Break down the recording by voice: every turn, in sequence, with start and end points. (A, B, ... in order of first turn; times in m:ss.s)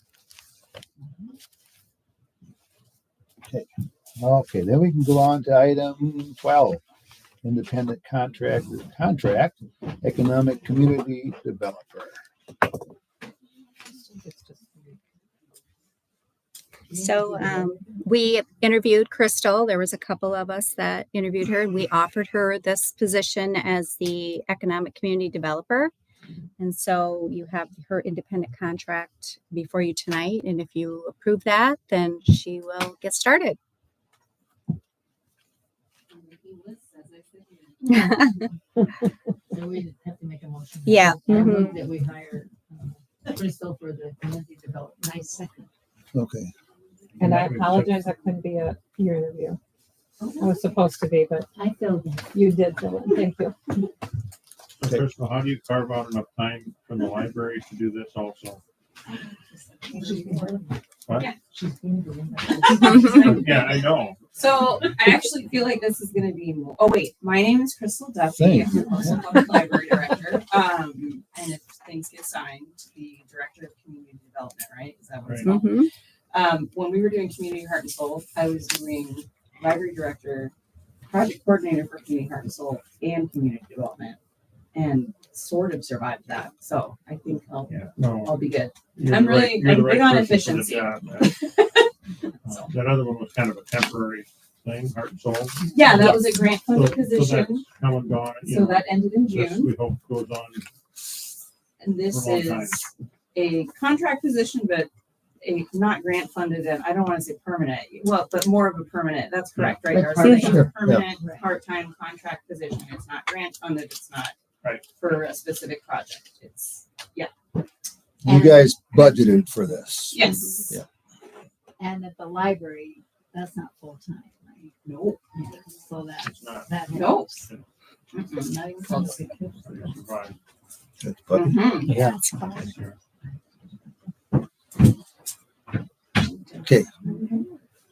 0:03.5-0:06.8 A
0:07.4-0:12.2 A
0:13.8-0:15.1 B
0:16.9-0:25.9 C
0:17.0-0:17.8 D
0:26.6-0:33.6 C
0:36.1-0:38.0 E
0:37.9-0:38.4 C
0:39.5-0:45.7 D
0:40.8-0:41.8 C
0:46.1-0:46.5 A
0:47.2-0:48.0 F
0:47.2-0:49.6 B
0:50.2-0:50.5 D
0:50.4-0:51.5 B
0:51.5-0:52.4 D
0:52.3-0:53.7 B
0:54.8-0:58.6 F
0:59.4-1:00.8 D
1:01.0-1:01.3 F
1:01.4-1:03.5 D
1:02.6-1:04.3 F
1:04.4-1:20.5 E
1:08.3-1:09.0 A
1:08.7-1:09.4 D
1:15.2-1:15.5 F
1:15.4-1:15.9 C
1:21.1-1:24.2 E
1:24.7-1:31.9 E
1:27.7-1:28.4 F
1:28.9-1:31.4 F
1:32.4-1:40.6 F
1:32.4-1:32.7 E
1:35.7-1:37.6 E
1:35.9-1:36.3 C
1:38.4-1:39.7 E
1:41.8-1:44.9 E
1:42.0-1:42.9 F
1:45.4-1:54.3 E
1:49.6-1:49.8 F
1:49.9-1:51.4 D
1:50.2-1:50.6 C
1:50.3-1:51.0 A
1:55.0-1:57.3 E
1:58.2-2:00.8 A
2:00.1-2:00.7 E
2:00.3-2:00.7 C
2:01.8-2:04.7 D
2:04.8-2:05.2 E
2:05.3-2:07.5 D
2:06.2-2:07.6 F
2:06.9-2:07.4 E
2:08.1-2:09.3 E
2:08.3-2:09.9 D
2:09.6-2:10.4 F
2:11.0-2:11.6 A
2:11.3-2:12.0 E
2:12.0-2:12.5 C
2:12.5-2:13.0 F
2:17.0-2:17.5 E